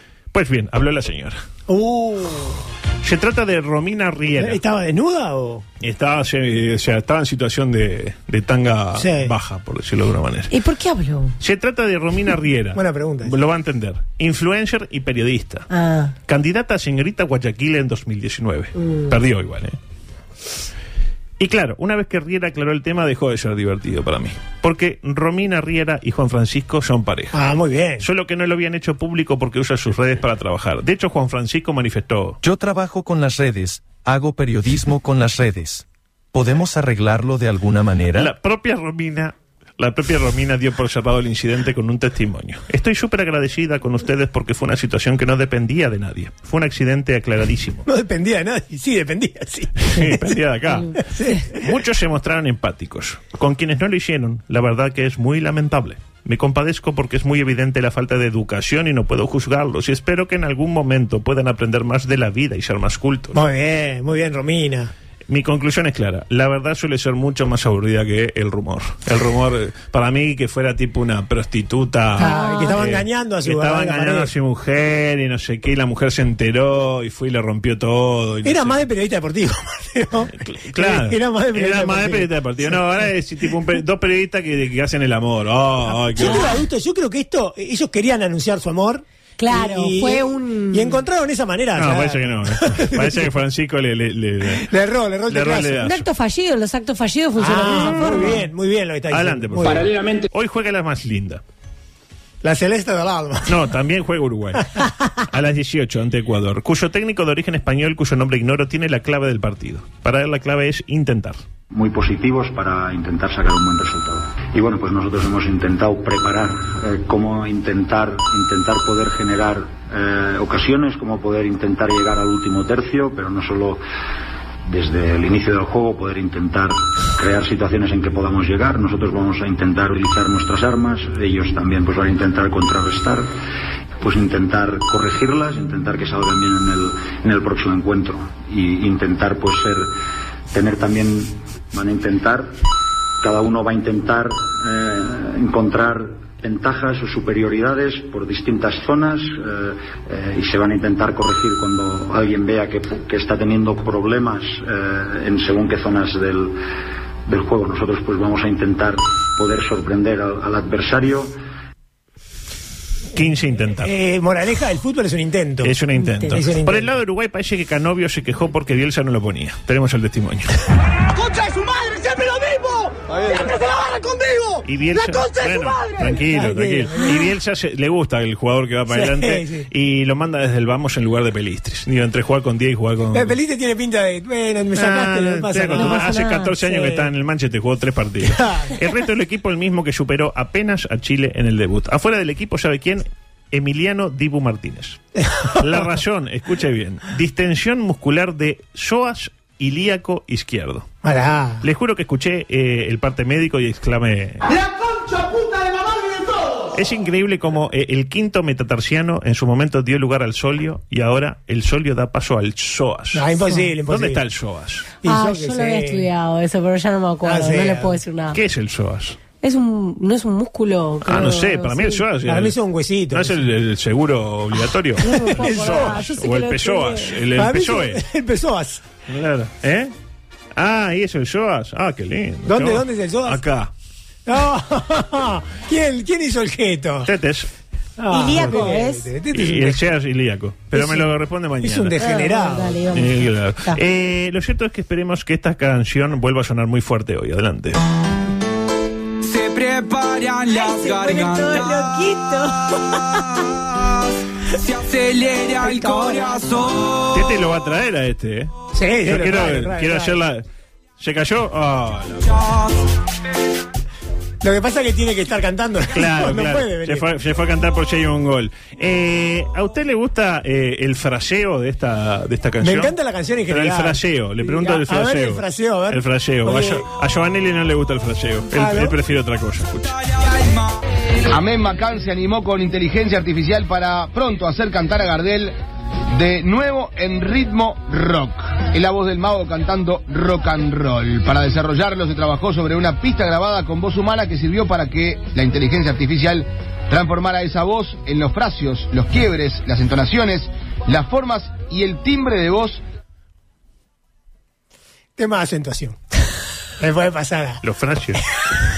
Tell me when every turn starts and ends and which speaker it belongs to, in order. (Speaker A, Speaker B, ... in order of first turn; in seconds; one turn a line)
Speaker A: 0.3-1.4
Speaker B: 1.7-2.6
Speaker A: 3.0-4.6
Speaker B: 4.4-5.7
Speaker A: 5.8-10.5
Speaker B: 9.0-9.3
Speaker C: 10.5-11.4
Speaker A: 11.4-15.7
Speaker B: 12.8-13.3
Speaker C: 15.7-16.1
Speaker A: 16.3-19.8
Speaker C: 18.8-19.1
Speaker A: 21.4-27.4
Speaker B: 27.3-28.1
Speaker A: 28.0-32.4
Speaker D: 32.4-38.3
Speaker A: 38.1-47.9
Speaker B: 47.9-50.2
Speaker A: 49.8-63.4
Speaker B: 51.0-51.7
Speaker B: 63.3-64.9
Speaker A: 65.3-78.8
Speaker B: 72.2-74.3
Speaker C: 72.2-72.8
Speaker B: 78.4-82.8
Speaker A: 80.4-86.6
Speaker B: 86.1-93.3
Speaker C: 86.2-86.6
Speaker C: 89.4-91.0
Speaker A: 91.8-94.7
Speaker B: 94.5-95.9
Speaker A: 95.3-96.0
Speaker C: 95.8-98.4
Speaker B: 97.4-99.9
Speaker A: 97.7-98.4
Speaker A: 99.1-101.4
Speaker E: 99.6-100.3
Speaker B: 102.4-103.6
Speaker A: 103.5-111.4
Speaker F: 111.7-123.8
Speaker F: 124.7-133.3
Speaker F: 134.0-139.9
Speaker F: 140.5-142.6
Speaker F: 143.2-156.6
Speaker F: 157.3-161.3
Speaker A: 163.1-163.9
Speaker B: 163.8-166.9
Speaker A: 165.6-170.6
Speaker C: 166.0-166.3
Speaker G: 171.1-176.2
Speaker A: 174.7-183.4
Speaker B: 176.2-177.2
Speaker B: 178.9-179.7
Speaker B: 183.1-187.1
Speaker A: 184.8-195.0
Speaker C: 185.7-186.6
Speaker B: 188.2-188.8
Speaker B: 195.2-196.0
Speaker A: 195.6-200.9
Speaker B: 201.0-201.7
Speaker A: 201.6-204.5
Speaker G: 204.6-206.6
Speaker A: 206.7-213.3
Speaker B: 213.1-214.2
Speaker A: 213.9-214.9
Speaker B: 215.0-216.1
Speaker C: 215.1-218.4
Speaker B: 217.2-218.0
Speaker A: 218.3-219.2
Speaker C: 219.4-222.0
Speaker A: 221.1-222.6
Speaker B: 222.3-223.4
Speaker A: 223.1-228.0
Speaker C: 225.0-227.2
Speaker B: 225.3-226.0
Speaker B: 227.3-228.8
Speaker A: 229.1-229.9
Speaker A: 230.6-233.7
Speaker B: 232.5-233.4
Speaker B: 234.3-237.1
Speaker A: 237.1-237.5
Speaker B: 238.0-240.0
Speaker C: 238.1-239.1
Speaker A: 239.3-242.0
Speaker B: 240.7-242.9
Speaker C: 242.0-243.8
Speaker A: 242.9-247.8
Speaker E: 249.3-250.3
Speaker C: 250.5-253.2
Speaker E: 254.9-255.6
Speaker B: 255.6-256.4
Speaker A: 257.1-258.5
Speaker B: 258.7-260.2
Speaker A: 259.1-260.4
Speaker A: 261.0-262.6
Speaker B: 264.4-267.1
Speaker A: 265.9-272.9
Speaker B: 272.6-276.9
Speaker A: 273.5-280.2
Speaker B: 278.5-279.0
Speaker H: 281.3-285.6
Speaker H: 286.1-302.8
Speaker B: 305.2-306.0
Speaker B: 306.8-307.6
Speaker A: 307.6-308.4